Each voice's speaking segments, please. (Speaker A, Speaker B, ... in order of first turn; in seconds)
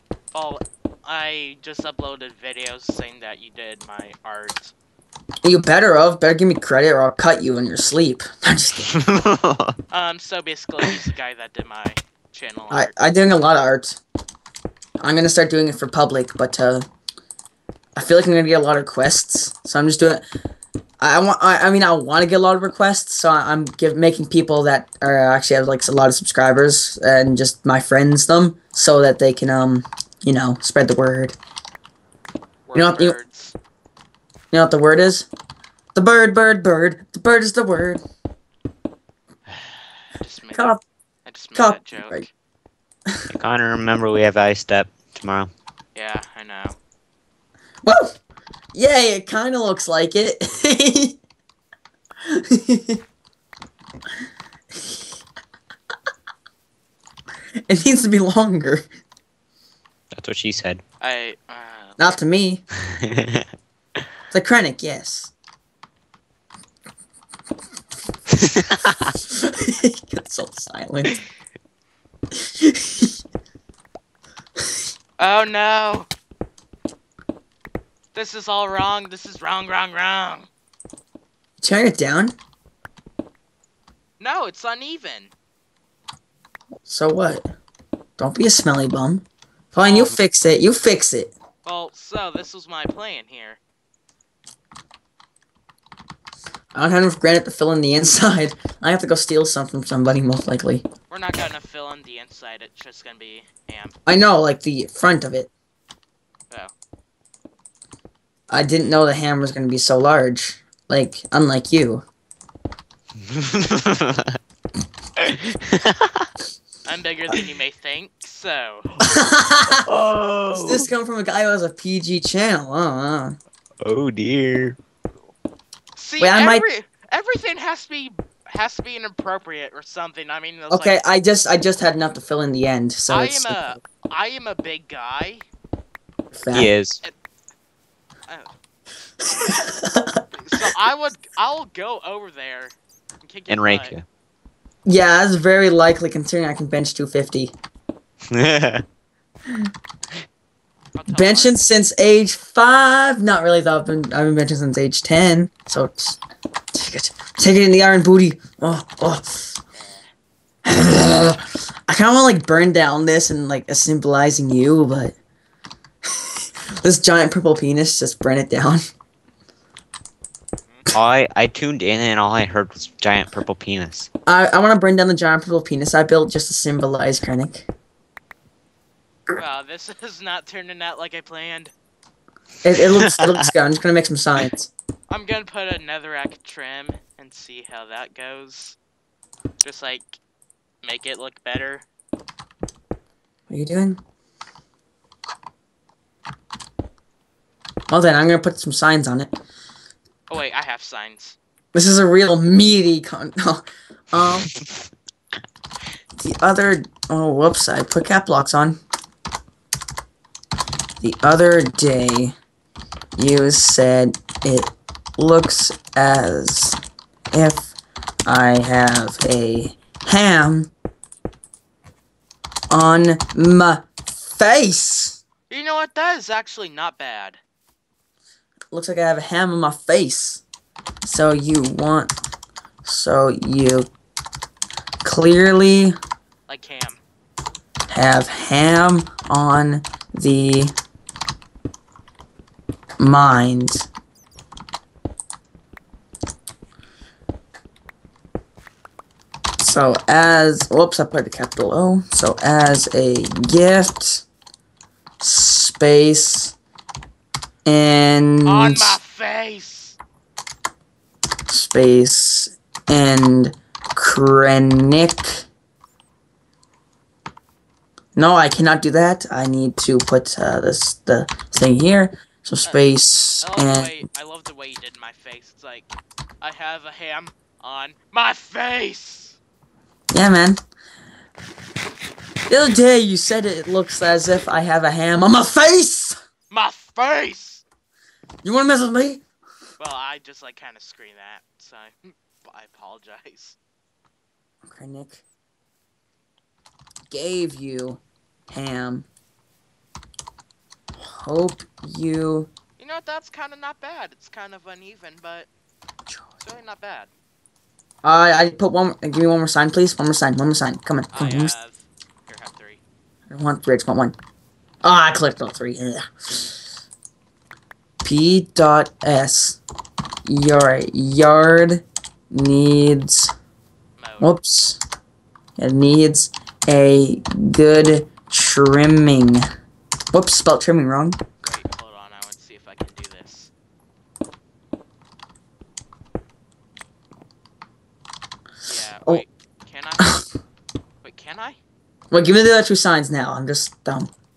Speaker A: 0.3-4.7, 9.9-12.9, 32.7-33.5, 39.5-42.3, 46.0-46.8, 61.0-62.1, 75.2-76.1, 78.2-80.5, 84.2-85.3, 91.6-93.6, 101.1-104.0, 116.8-118.9, 126.0-131.0, 133.1-135.5, 140.3-144.0, 151.0-151.7, 159.8-160.1, 179.3-181.7, 185.1-188.8, 189.6-190.2, 190.8-191.8, 200.3-201.4, 225.5-227.4, 236.5-237.0, 258.4-260.0, 272.6-279.4, 286.5-287.6, 289.8-293.6, 302.8-305.5, 306.4-307.1, 311.1-312.8, 324.0-324.4, 331.4-333.5, 338.6-340.3, 341.0-341.6
Speaker B: 5.4-8.9, 12.7-14.0, 15.0-16.9, 18.0-20.2, 21.0-31.4, 32.7-33.2, 34.5-35.3, 36.0-38.0, 40.5-40.8, 41.5-42.3, 47.8-48.1, 48.7-51.2, 52.3-53.0, 57.7-58.9, 62.0-62.6, 64.3-65.3, 69.2-71.2, 72.6-73.1, 81.6-82.4, 86.8-87.5, 88.2-91.3, 96.7-100.9, 104.1-105.5, 108.5-112.1, 119.0-119.9, 120.5-123.4, 126.2-126.6, 130.7-133.8, 136.3-136.7, 139.4-140.2, 144.9-147.5, 151.1-156.2, 156.7-159.6, 160.7-165.2, 166.8-168.8, 174.3-177.7, 182.6-184.7, 193.5-194.0, 197.9-199.3, 201.7-204.5, 206.2-208.8, 211.0-212.3, 213.2-216.8, 217.3-217.8, 218.3-220.7, 222.7-225.2, 228.7-230.4, 231.0-232.2, 232.8-233.9, 235.0-235.9, 237.9-240.7, 243.0-243.9, 249.6-254.3, 255.2-256.6, 257.7-259.0, 261.5-265.4, 268.2-273.9, 280.1-280.6, 282.5-286.1, 288.4-289.2, 294.6-295.2, 297.1-299.1, 301.0-302.5, 308.0-311.5, 313.3-314.1, 314.8-316.5, 318.0-319.6, 320.3-323.3, 324.2-324.8, 325.6-329.4, 330.1-331.2, 342.1-344.1
Speaker C: 8.9-9.8, 43.3-45.5, 60.1-60.8, 63.0-63.5, 68.6-69.0, 89.8-90.2, 113.2-114.4, 115.2-116.3, 119.9-120.9, 123.8-124.8, 136.5-137.0, 143.5-144.1, 148.3-148.8, 170.9-174.1, 183.1-183.3